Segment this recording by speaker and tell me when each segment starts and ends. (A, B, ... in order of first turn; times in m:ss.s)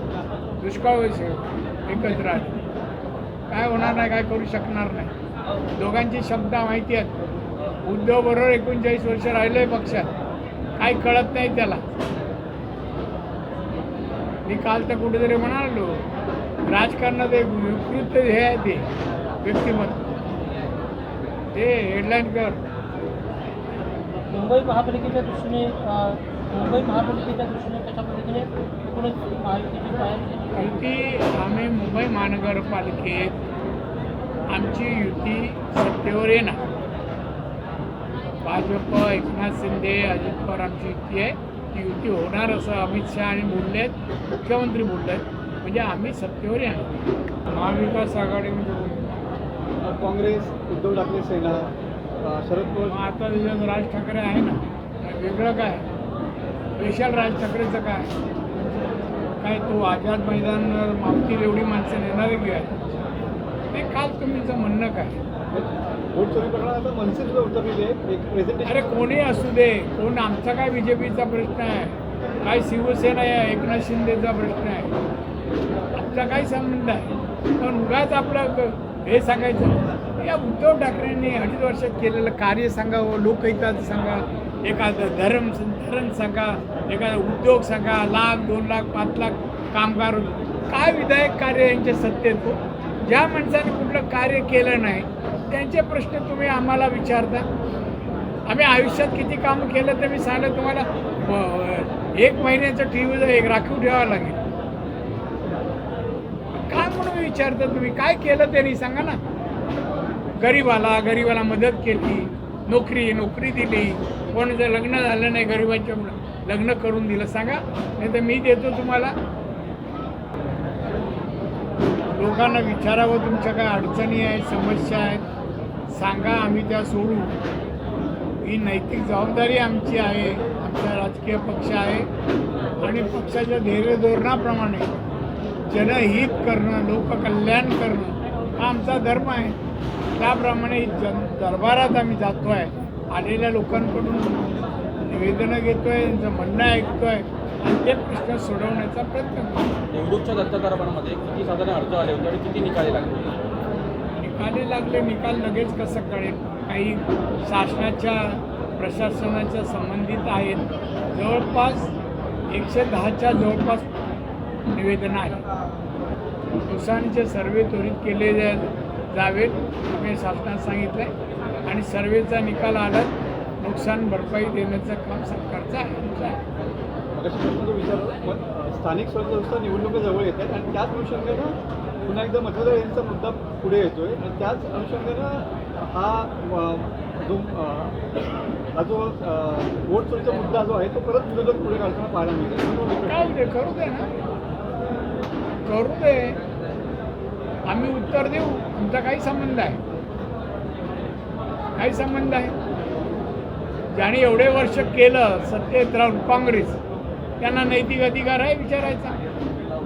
0:00.6-0:02.6 A
0:03.5-0:05.1 A
0:05.7-0:07.1 A
0:07.8-0:10.1 A
0:10.8-0:11.8 A
0:14.4-0:16.0 A
0:16.7-0:18.9 A
0:19.4-0:20.0 A
0:21.5-0:22.6 A
0:24.3-0:30.8 B
0:30.6-0:33.4 A
0:34.5-0:36.8 A
0:38.4-0:46.9 A
0:47.5-0:49.1 A
0:49.8-0:53.0 C
0:52.9-0:55.8 A
0:56.8-0:58.1 A
0:59.4-1:02.8 A
1:03.7-1:05.2 A
1:05.5-1:08.9 C
1:08.6-1:14.9 A
1:16.0-1:17.1 A
1:17.6-1:37.4 A
1:38.5-1:44.4 A
1:46.7-1:49.2 A
1:50.4-1:59.1 A
2:02.1-2:05.2 A
2:05.9-2:07.4 A
2:08.4-2:12.1 A
2:12.8-2:14.9 A
2:15.7-2:19.6 A
2:20.1-2:29.6 A
2:29.9-2:33.3 D
2:34.2-2:41.9 A
2:42.5-2:43.9 A
2:44.7-2:45.4 A
2:46.6-2:51.1 A
2:51.6-2:56.4 A
2:57.1-3:08.0 C
3:08.7-3:13.4 C
3:13.1-3:14.1 A
3:15.6-3:16.4 A
3:17.6-3:19.8 A
3:21.8-3:22.5 A
3:23.9-3:26.8 A
3:27.4-3:29.2 A